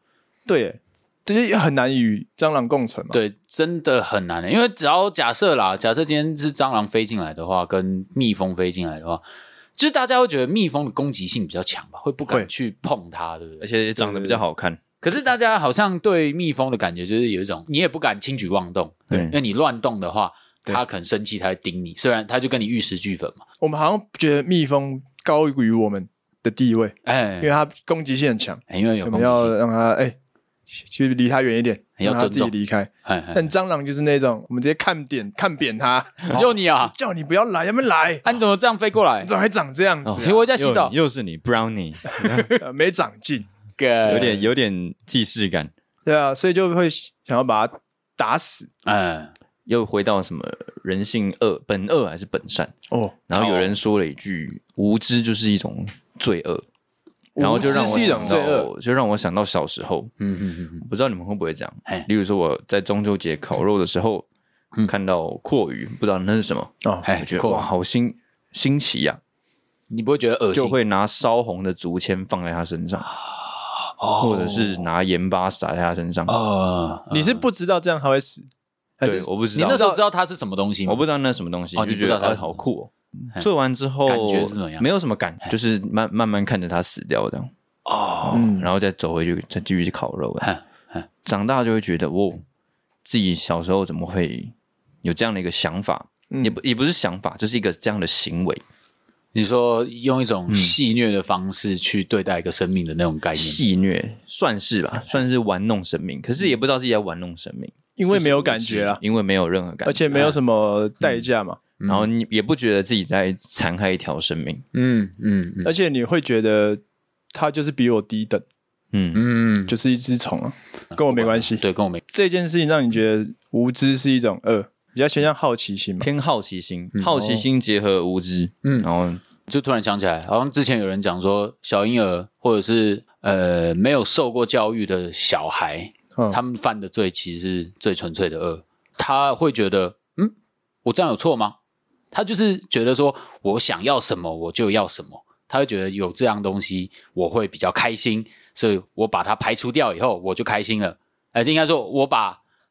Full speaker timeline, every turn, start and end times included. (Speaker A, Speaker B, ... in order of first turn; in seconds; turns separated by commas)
Speaker A: 0.5-3.2, Speaker B: 3.1-9.2, Speaker B: 9.8-13.7, Speaker C: 13.6-14.8, Speaker A: 14.0-14.4, Speaker B: 15.0-23.4, Speaker A: 23.6-30.2, Speaker B: 27.1-27.5, Speaker B: 28.7-29.6, Speaker A: 30.8-38.4, Speaker B: 32.0-32.5, Speaker B: 33.0-33.5, Speaker B: 36.3-36.9, Speaker B: 38.2-39.3, Speaker A: 39.2-40.4, Speaker C: 40.0-42.5, Speaker B: 40.2-41.0, Speaker B: 42.2-42.6, Speaker A: 42.5-43.5, Speaker B: 43.8-44.5, Speaker C: 44.0-45.7, Speaker A: 46.1-48.7, Speaker B: 48.9-49.3, Speaker C: 49.7-52.7, Speaker A: 52.9-53.1, Speaker C: 53.3-56.6, Speaker B: 53.3-53.7, Speaker A: 57.4-58.7, Speaker C: 57.4-60.1, Speaker B: 57.6-58.4, Speaker B: 60.2-60.9, Speaker C: 60.8-64.3, Speaker C: 64.9-69.2, Speaker B: 67.0-67.7, Speaker B: 69.9-70.8, Speaker C: 70.5-73.1, Speaker B: 73.1-74.8, Speaker C: 74.2-76.3, Speaker B: 76.3-77.5, Speaker A: 77.1-78.5, Speaker A: 79.0-80.0, Speaker C: 79.0-79.8, Speaker B: 79.5-81.0, Speaker C: 80.9-87.5, Speaker B: 81.8-82.6, Speaker B: 84.1-84.9, Speaker B: 87.9-88.5, Speaker C: 88.2-90.5, Speaker A: 88.3-88.7, Speaker B: 90.4-91.1, Speaker C: 91.2-92.4, Speaker C: 93.0-98.6, Speaker A: 96.3-96.6, Speaker B: 99.3-103.6, Speaker C: 100.5-100.8, Speaker C: 103.4-110.1, Speaker A: 108.0-109.0, Speaker A: 109.8-111.6, Speaker B: 110.1-110.4, Speaker B: 111.8-112.1, Speaker C: 111.9-114.7, Speaker B: 114.7-115.7, Speaker A: 115.6-116.8, Speaker A: 117.3-118.5, Speaker C: 118.9-119.2, Speaker B: 119.2-119.7, Speaker A: 119.7-126.1, Speaker B: 121.0-122.0, Speaker C: 126.0-129.2, Speaker A: 127.1-127.4, Speaker B: 128.6-128.9, Speaker B: 129.5-140.3, Speaker B: 140.8-141.6, Speaker B: 142.1-152.4